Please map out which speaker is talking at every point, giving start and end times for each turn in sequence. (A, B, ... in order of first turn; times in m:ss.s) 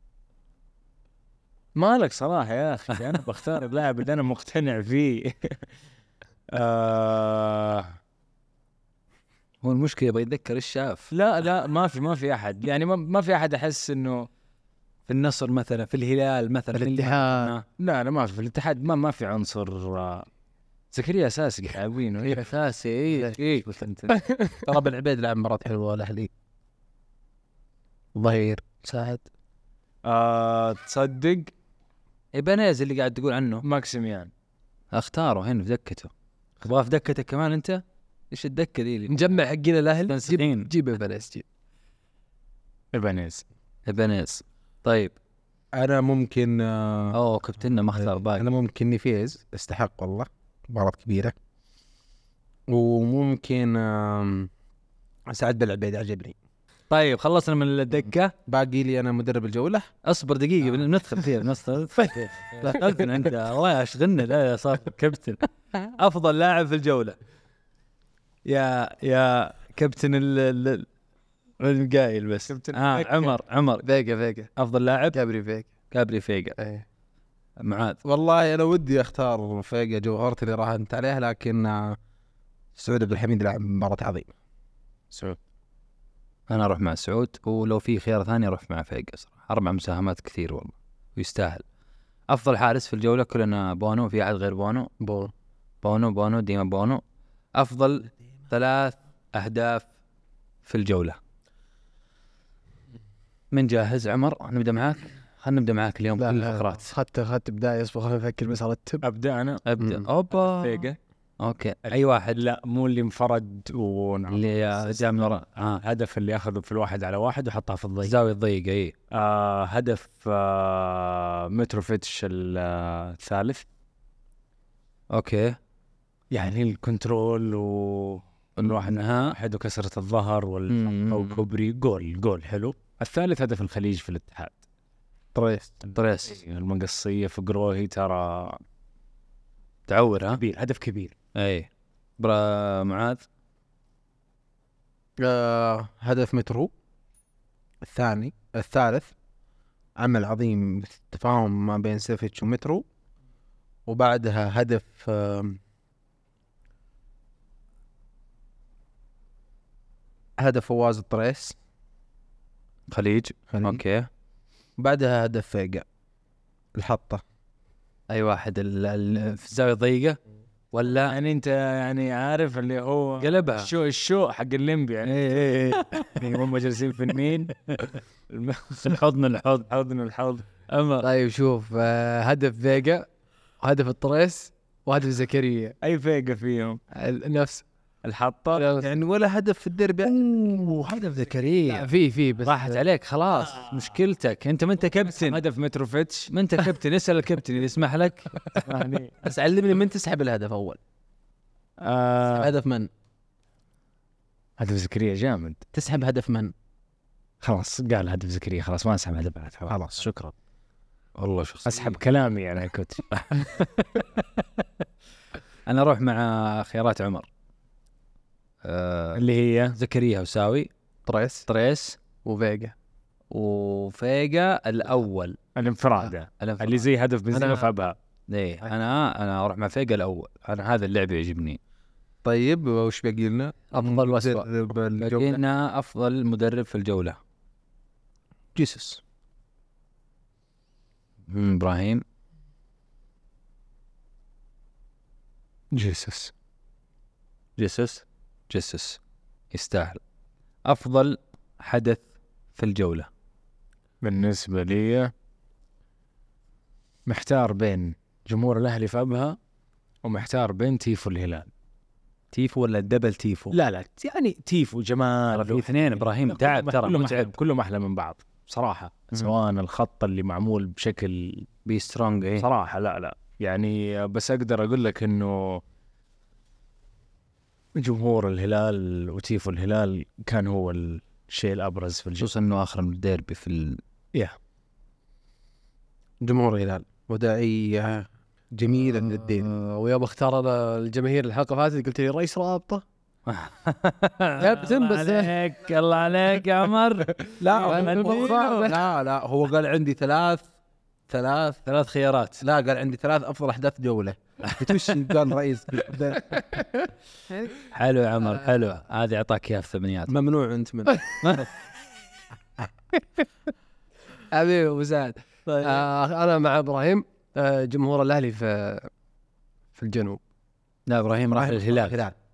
0:01.8-0:05.6 A
0:06.5-0:08.0 A
0:09.6-0:11.1 B
0:11.1-0:14.3 A
0:15.1-0:17.6 B
0:16.7-0:17.5 C
0:17.8-0:20.3 A
0:20.9-0:22.4 A
0:22.3-0:24.1 B
0:23.4-0:24.1 A
0:24.1-0:24.6 C
0:24.6-0:26.3 D
0:28.2-0:28.8 D
0:28.9-0:29.2 B
0:30.0-0:31.5 A
0:32.3-0:33.6 B
0:33.6-0:34.3 A
0:34.9-0:39.1 B
0:39.1-0:41.4 C
0:40.1-0:40.7 B
0:42.9-0:43.4 A
0:43.9-0:45.1 B
0:45.8-0:47.2 D
0:47.1-0:48.4 B
0:48.0-0:51.4 D
0:52.7-0:54.5 D
0:55.3-0:56.4 D
0:56.9-0:58.3 B
0:58.5-0:59.9 D
1:00.0-1:07.2 B
1:08.5-1:10.9 B
1:11.6-1:13.8 B
1:12.5-1:13.3 A
1:13.8-1:14.5 C
1:14.6-1:15.2 B
1:15.1-1:15.7 C
1:15.9-1:16.6 B
1:16.6-1:16.8 C
1:17.6-1:18.0 B
1:18.0-1:22.0 D
1:22.8-1:24.3 D
1:25.1-1:25.4 A
1:26.5-1:31.6 B
1:32.3-1:34.9 B
1:35.0-1:35.3 D
1:35.8-1:37.0 B
1:37.6-1:39.9 B
1:40.7-1:41.2 B
1:43.5-1:46.9 B
1:46.2-1:49.0 C
1:49.0-1:49.6 A
1:49.7-1:50.9 B
1:50.3-1:51.0 A
1:51.4-1:52.4 B
1:51.9-1:55.0 A
1:54.3-1:55.8 B
1:55.8-1:58.1 A
1:58.0-1:58.9 B
1:59.1-2:03.6 A
2:05.1-2:05.6 B
2:06.3-2:14.6 A
2:08.6-2:09.4 B
2:10.7-2:11.4 B
2:15.4-2:15.7 D
2:15.9-2:18.6 A
2:15.9-2:16.4 B
2:19.9-2:20.4 B
2:20.4-2:21.2 A
2:21.4-2:23.2 B
2:25.2-2:26.7 D
2:27.8-2:29.1 D
2:30.0-2:32.8 D
2:33.9-2:35.6 D
2:40.4-2:41.6 D
2:42.9-2:44.1 B
2:43.5-2:43.8 D
2:44.8-2:45.8 D
2:46.8-2:47.2 D
2:48.1-2:50.2 B
2:50.7-2:51.2 B
2:51.1-2:57.5 A
2:53.2-2:53.7 B
2:55.0-2:56.2 B
2:58.3-2:59.0 A
2:58.8-2:59.7 B
2:59.7-3:00.5 A
3:00.7-3:01.1 B
3:01.0-3:03.1 C
3:03.6-3:05.8 C
3:05.8-3:06.8 A
3:07.0-3:07.6 C
3:08.0-3:08.7 A
3:08.6-3:08.9 C
3:08.8-3:10.1 D
3:10.6-3:11.9 B
3:11.7-3:12.8 C
3:12.4-3:15.4 B
3:15.1-3:16.6 A
3:16.3-3:18.5 B
3:18.6-3:19.2 A
3:19.2-3:20.8 D
3:21.8-3:22.5 A
3:22.3-3:22.9 D
3:24.6-3:25.6 A
3:25.7-3:26.5 D
3:27.4-3:30.3 A
3:29.7-3:30.1 D
3:31.2-3:32.0 B
3:31.7-3:33.7 A
3:35.7-3:37.3 B
3:38.6-3:39.2 B
3:39.2-3:39.8 A
3:39.8-3:40.7 B
3:41.1-3:41.5 C
3:41.5-3:42.0 B
3:42.2-3:42.7 C
3:43.3-3:45.4 B
3:45.6-3:48.0 A
3:46.4-3:46.8 B
3:47.3-3:47.7 C
3:48.3-3:51.6 B
3:52.2-3:55.4 D
3:53.7-3:54.5 C
3:55.0-3:57.2 B
3:58.6-3:59.0 D
4:01.3-4:02.0 B
4:05.7-4:06.3 A
4:07.6-4:09.0 B
4:09.5-4:10.0 B
4:10.7-4:13.1 B
4:14.0-4:15.1 A
4:17.1-4:19.4 A
4:20.0-4:21.5 A
4:22.3-4:23.5 B
4:23.5-4:31.5 A
4:25.3-4:27.4 B
4:31.7-4:32.5 B
4:32.4-4:35.6 A
4:37.8-4:42.3 A
4:42.2-4:43.8 B
4:46.2-4:49.5 D
4:49.2-4:52.8 C
4:53.3-4:58.7 B
4:54.4-4:55.3 C
4:57.4-5:00.5 D
4:57.6-4:58.8 C
5:01.1-5:01.6 D
5:01.7-5:02.4 B
5:02.4-5:06.6 D
5:04.4-5:05.0 B
5:07.7-5:10.1 B
5:10.1-5:11.0 D
5:11.2-5:11.5 B
5:14.3-5:18.9 C
5:15.5-5:15.8 A
5:19.8-5:20.2 C
5:20.9-5:22.0 B
5:21.4-5:22.2 D